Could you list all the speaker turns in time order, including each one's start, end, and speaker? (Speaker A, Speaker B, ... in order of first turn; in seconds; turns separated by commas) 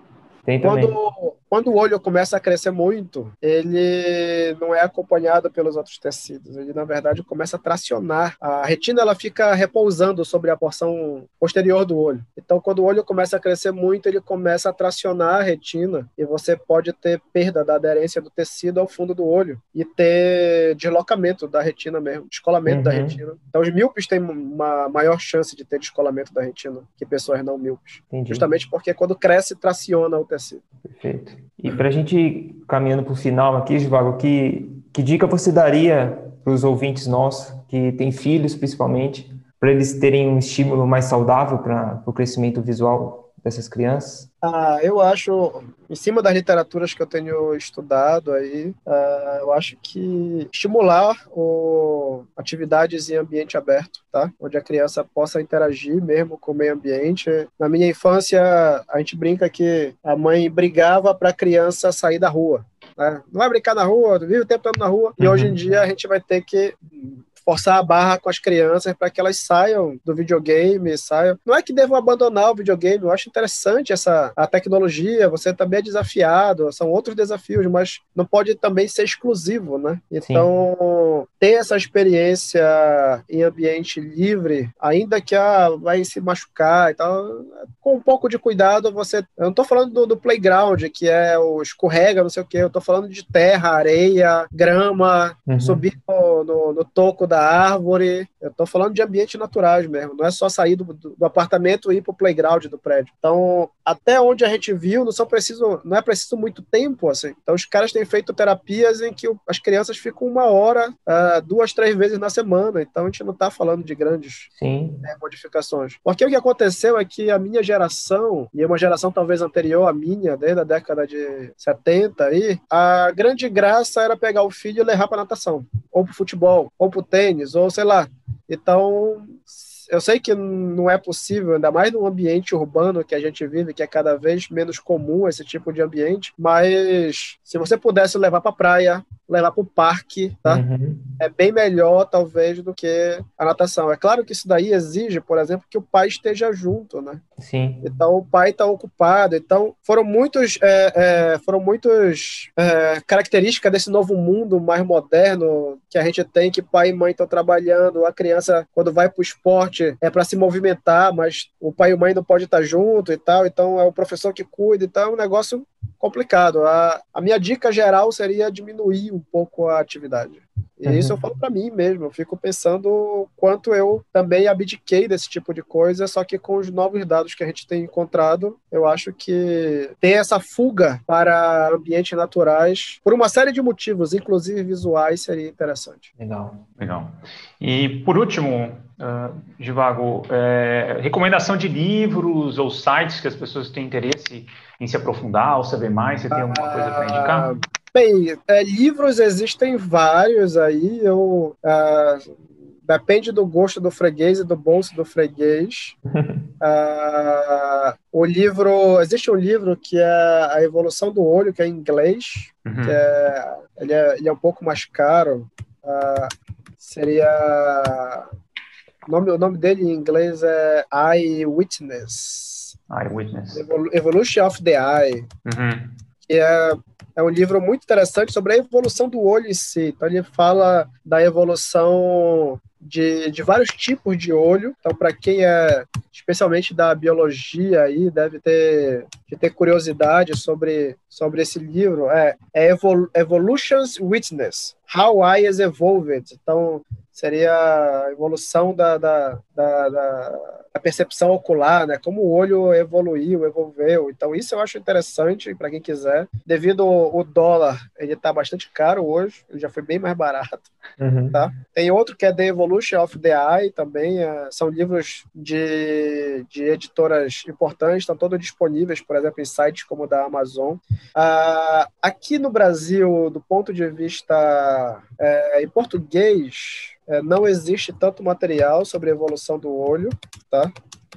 Speaker A: 0.5-0.9, Speaker B: 0.6-30.6, Speaker A: 22.6-23.2, Speaker A: 28.1-28.4, Speaker A: 30.8-44.3, Speaker B: 44.4-114.5, Speaker A: 65.2-65.6, Speaker A: 80.2-80.5, Speaker A: 95.5-95.8, Speaker A: 114.6-115.1, Speaker B: 115.0-140.6, Speaker A: 140.4-141.1, Speaker B: 141.2-147.2, Speaker A: 147.4-147.9, Speaker B: 147.8-186.1, Speaker A: 170.9-171.2, Speaker A: 186.2-186.6, Speaker C: 186.8-197.5, Speaker B: 196.3-202.3, Speaker B: 202.9-205.9, Speaker A: 206.1-206.5, Speaker B: 206.6-218.3, Speaker C: 212.7-213.0, Speaker B: 219.1-222.7, Speaker C: 222.9-223.6, Speaker B: 223.5-225.3, Speaker C: 225.4-225.9, Speaker B: 226.3-260.7, Speaker A: 261.0-261.4, Speaker B: 261.3-280.7